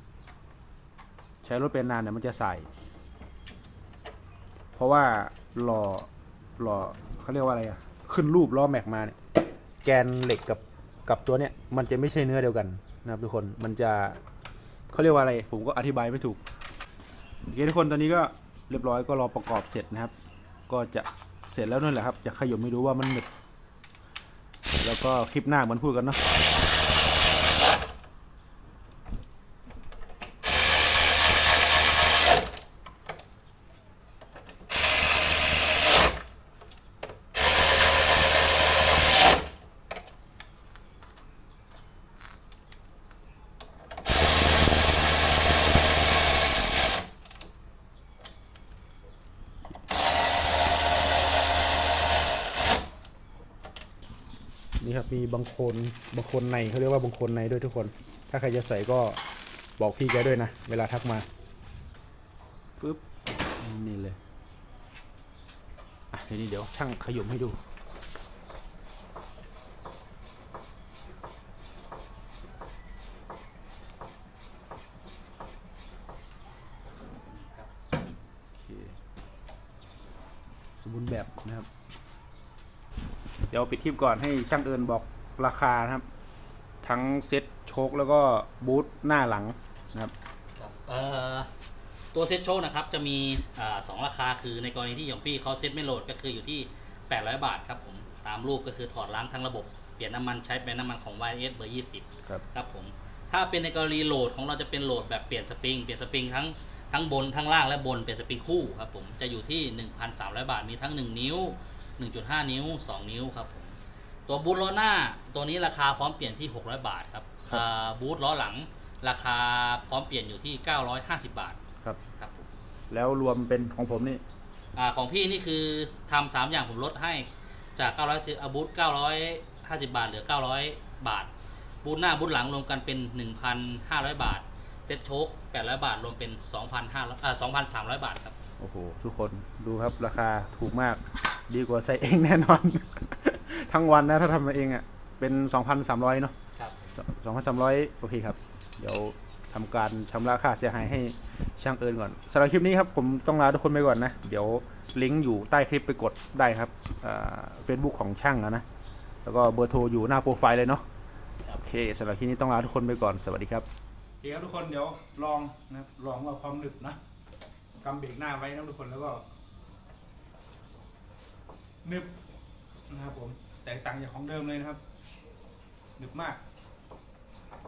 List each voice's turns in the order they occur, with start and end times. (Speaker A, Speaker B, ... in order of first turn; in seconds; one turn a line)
Speaker A: 1.4-2.7
Speaker A: 4.7-9.2
Speaker A: 9.8-14.2
Speaker A: 14.9-16.4
Speaker A: 17.5-20.1
Speaker A: 20.7-23.3
Speaker A: 24.8-26.2
Speaker A: 54.8-59.2
Speaker A: 59.8-61.2
Speaker A: 63.6-64.2
Speaker A: 66.1-67.6
Speaker B: 77.2-78.2
Speaker A: 78.6-79.0
Speaker A: 80.8-81.7
Speaker A: 83.5-86.0
Speaker A: 86.8-90.1
Speaker B: 90.5-91.5
Speaker B: 92.1-122.5
Speaker A: 122.9-124.2
Speaker B: 124.7-131.3
Speaker B: 131.8-138.4
Speaker A: 138.6-146.3
Speaker B: 146.5-147.0
Speaker A: 146.9-158.6
Speaker A: 159.2-160.8
Speaker A: 161.6-163.7
Speaker A: 164.2-167.0
Speaker A: 167.8-169.2
Speaker A: 171.8-172.1
Speaker A: 172.9-174.8
Speaker A: 176.0-176.4